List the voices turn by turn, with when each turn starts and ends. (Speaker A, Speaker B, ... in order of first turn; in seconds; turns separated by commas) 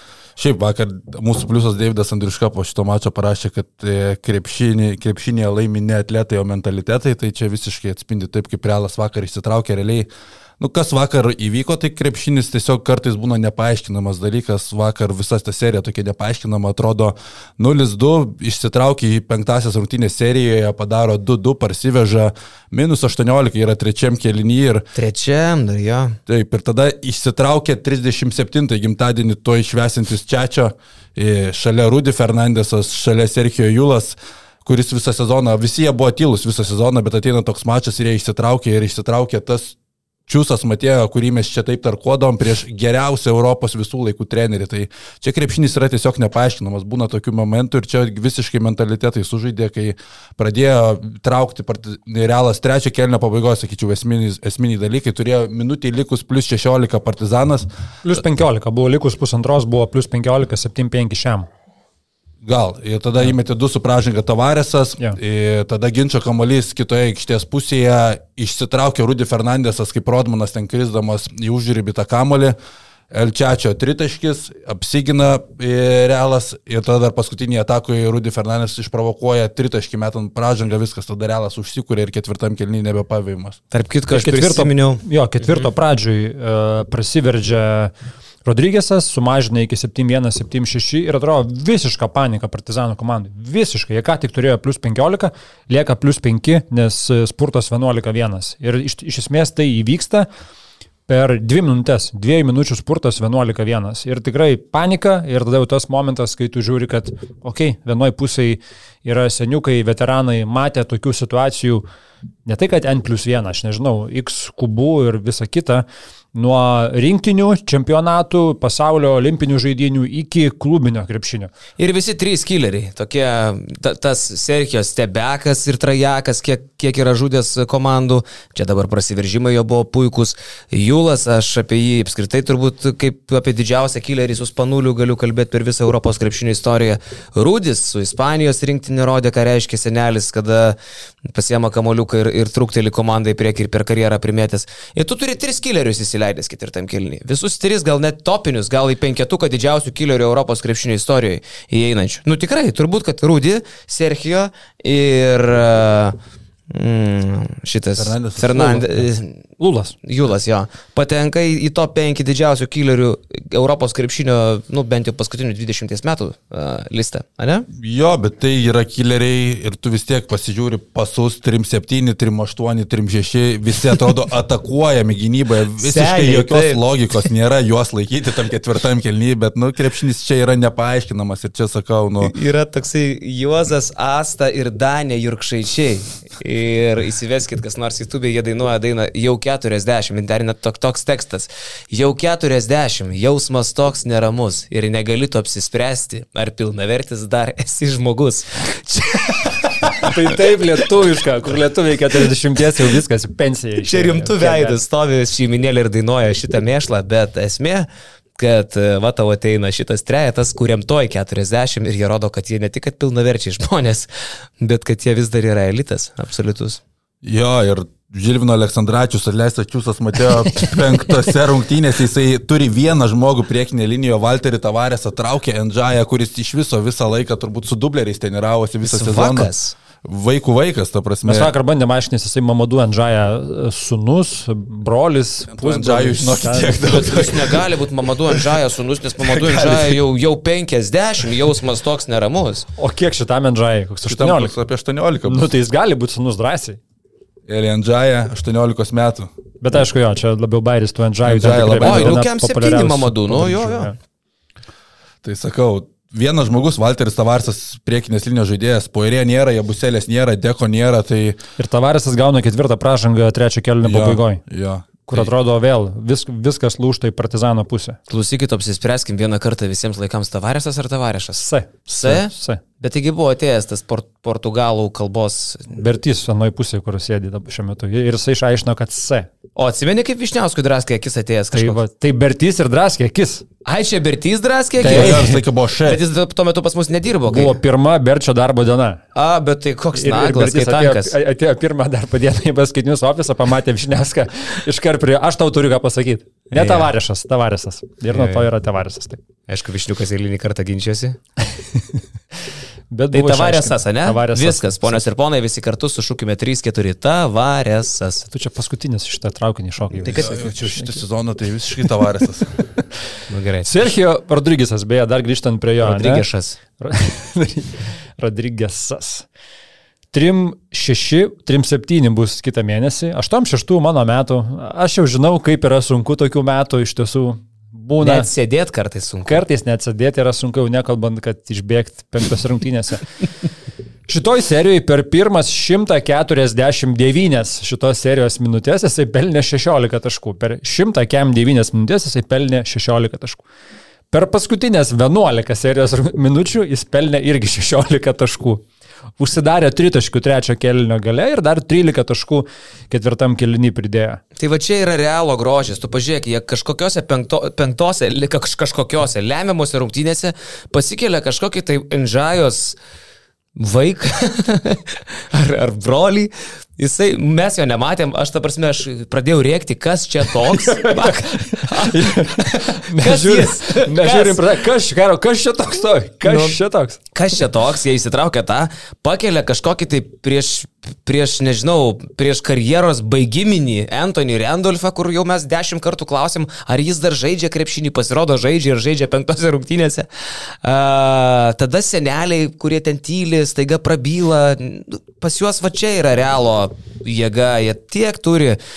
Speaker A: 0.4-24.9, Speaker B: 24.9-26.2, Speaker A: 26.3-39.8, Speaker A: 40.3-57.7, Speaker C: 58.0-61.5, Speaker A: 62.4-72.6, Speaker A: 73.1-83.6, Speaker B: 83.7-85.6, Speaker C: 84.1-87.9, Speaker C: 88.5-100.3, Speaker C: 101.1-111.8, Speaker C: 112.5-121.5, Speaker B: 121.8-156.2, Speaker B: 156.7-159.4, Speaker A: 157.9-158.9, Speaker C: 158.6-159.0, Speaker C: 159.6-159.9, Speaker B: 160.0-167.7, Speaker A: 167.7-182.3, Speaker B: 175.8-177.2, Speaker B: 182.2-200.1, Speaker C: 199.8-204.8, Speaker B: 203.8-214.1, Speaker B: 214.6-216.8, Speaker A: 217.2-229.5, Speaker B: 228.8-229.7, Speaker A: 230.0-231.5, Speaker C: 231.2-236.8, Speaker A: 235.5-237.7, Speaker B: 236.8-242.7, Speaker A: 239.2-240.0, Speaker C: 242.8-244.5, Speaker A: 244.1-245.5, Speaker C: 245.3-246.8, Speaker A: 247.5-249.3, Speaker C: 249.6-253.9, Speaker A: 251.2-252.2, Speaker B: 251.8-253.9, Speaker A: 255.2-261.4, Speaker C: 261.6-264.4, Speaker A: 263.8-265.3, Speaker C: 265.1-268.0, Speaker B: 268.1-275.8, Speaker C: 271.4-272.6, Speaker C: 275.7-279.3, Speaker B: 279.6-281.8, Speaker C: 281.5-283.5, Speaker B: 283.7-285.3, Speaker A: 284.8-286.0, Speaker C: 284.8-285.4, Speaker B: 285.9-287.6, Speaker C: 287.3-289.0, Speaker B: 289.1-291.1, Speaker C: 289.9-299.2, Speaker B: 296.5-296.9, Speaker B: 298.1-298.5, Speaker B: 299.5-301.2, Speaker C: 302.9-305.0, Speaker B: 303.1-308.3, Speaker C: 308.3-310.9, Speaker B: 310.0-310.7, Speaker A: 310.1-312.5, Speaker C: 312.6-312.8, Speaker B: 313.3-313.9, Speaker C: 313.6-316.2, Speaker B: 315.8-316.6, Speaker C: 316.8-319.3, Speaker C: 320.1-328.3, Speaker B: 328.0-329.4, Speaker C: 329.3-333.1, Speaker C: 334.1-343.4, Speaker C: 344.1-348.6, Speaker C: 349.2-354.2, Speaker B: 354.4-362.8, Speaker B: 363.6-374.5, Speaker C: 370.6-377.1, Speaker B: 376.2-376.6, Speaker B: 377.1-398.6